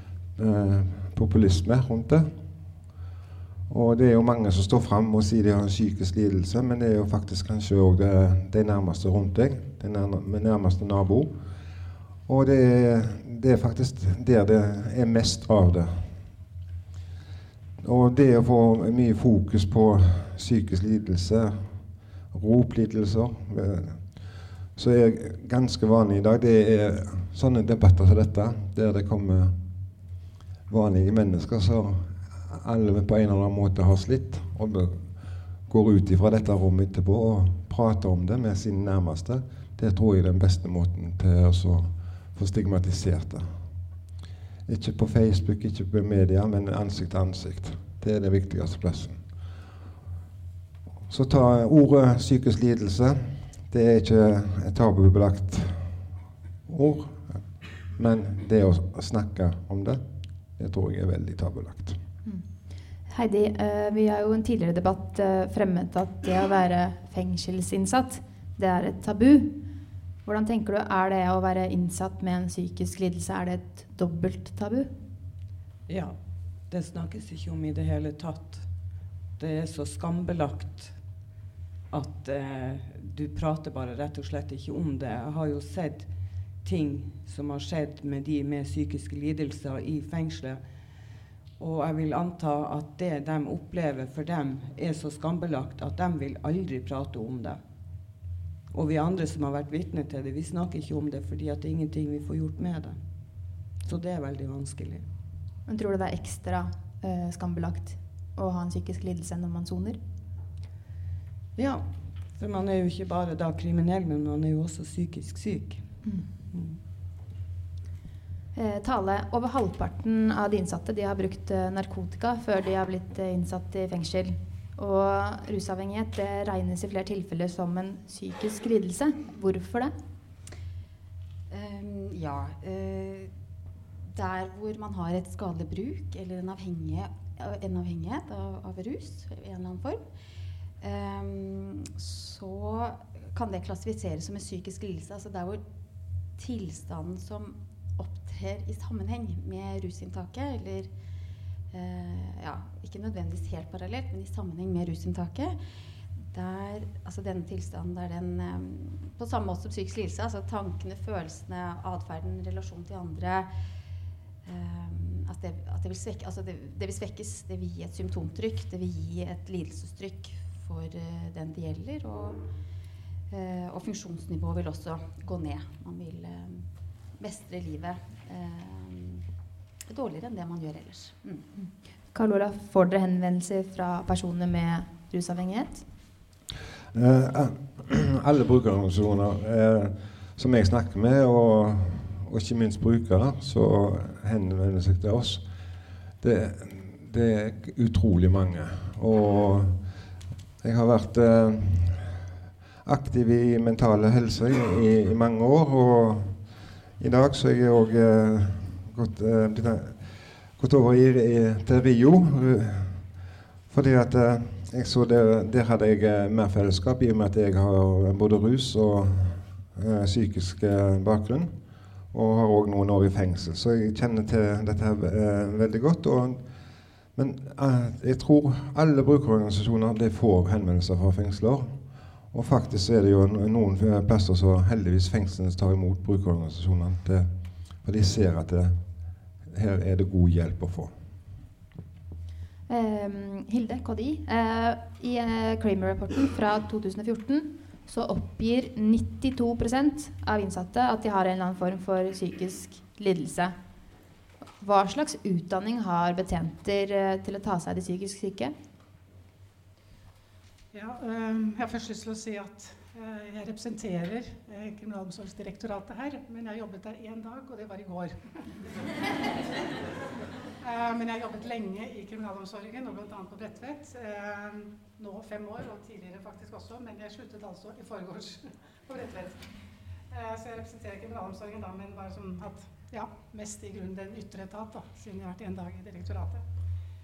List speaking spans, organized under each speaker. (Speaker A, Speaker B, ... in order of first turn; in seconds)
Speaker A: 0.3-2.3, 3.7-11.3, 12.2-16.2, 17.8-21.7, 22.3-29.6, 30.7-43.6, 44.6-49.2, 51.1-56.0, 56.6-60.0, 60.5-62.0, 186.9-195.4, 196.2-199.8, 200.6-202.2, 202.8-206.5, 207.0-213.1, 213.7-221.5, 222.1-226.4, 227.1-231.8, 232.3-237.3, 237.8-238.8, 239.5-240.9
Speaker B: 62.2-69.6, 70.2-74.9, 105.7-110.0, 118.5-129.9, 181.6-185.8, 242.7-253.6, 254.6-258.5
Speaker C: 75.9-81.0, 81.9-90.6, 91.6-97.6, 98.7-105.0, 111.5-116.8
Speaker D: 131.5-133.3, 134.0-140.1, 140.8-145.6, 146.3-150.9, 151.7-155.6, 156.1-163.5, 164.4-172.4, 173.3-179.2, 179.9-181.5
Speaker E: 260.7-268.4, 270.6-279.5, 280.1-286.4